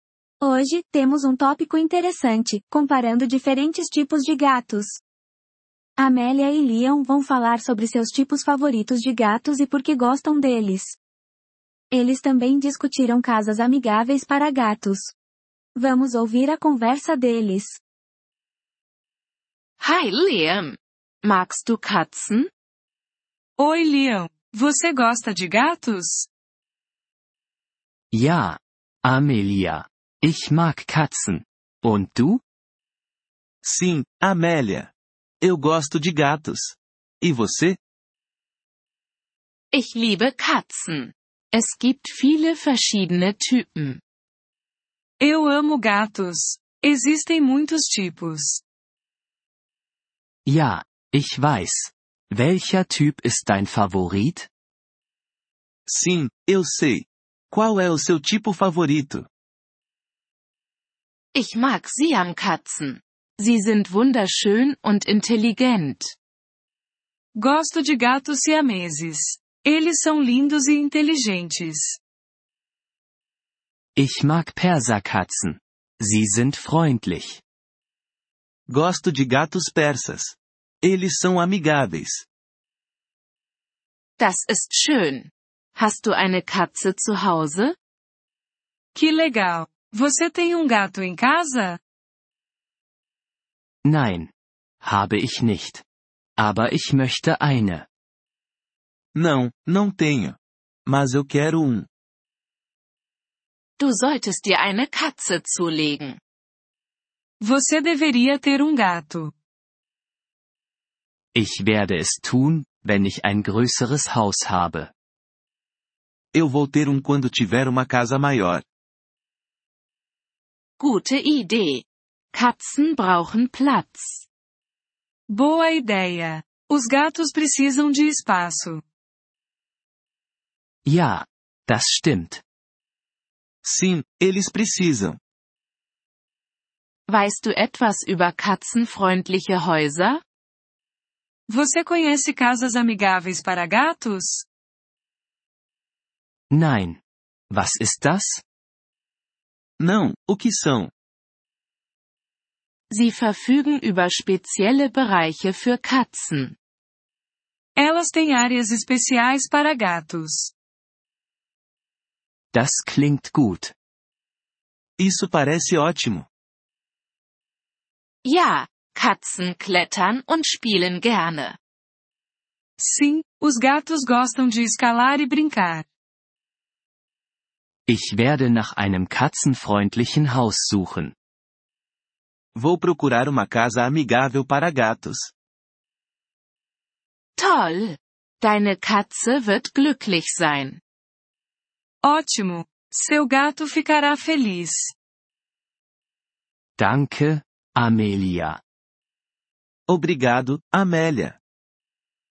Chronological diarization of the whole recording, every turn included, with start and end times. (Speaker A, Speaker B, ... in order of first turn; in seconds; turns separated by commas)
Speaker A: 0.4-5.0, Speaker A: 6.0-11.0, Speaker A: 11.9-15.1, Speaker A: 15.8-17.8, Speaker B: 19.8-22.5, Speaker C: 23.6-26.3, Speaker D: 28.1-32.4, Speaker E: 33.6-37.8, Speaker B: 39.7-44.0, Speaker C: 45.2-48.6, Speaker D: 50.5-54.5, Speaker E: 55.9-59.3, Speaker B: 61.3-66.2, Speaker C: 67.4-72.0, Speaker D: 74.0-77.4, Speaker E: 78.7-82.3, Speaker B: 84.2-87.8, Speaker C: 89.0-91.8, Speaker D: 93.8-94.3, Speaker D: 94.8-95.8, Speaker D: 96.4-97.9, Speaker E: 99.2-101.9, Speaker B: 103.8-106.2, Speaker C: 107.4-109.3, Speaker D: 111.3-114.9, Speaker E: 116.3-118.6, Speaker B: 120.8-124.3, Speaker C: 125.3-128.8, Speaker D: 130.8-132.4, Speaker E: 133.6-135.2, Speaker B: 137.1-140.2, Speaker C: 141.5-144.5, Speaker D: 146.5-147.0, Speaker D: 147.5-148.4, Speaker E: 149.8-150.9, Speaker B: 152.9-156.6, Speaker C: 157.8-160.5, Speaker D: 162.5-163.7, Speaker E: 165.0-166.3, Speaker B: 168.2-171.6, Speaker C: 172.8-175.8, Speaker D: 177.9-181.1, Speaker E: 182.6-185.3, Speaker B: 187.4-190.8, Speaker C: 192.0-194.9, Speaker D: 196.8-198.6, Speaker E: 199.9-201.4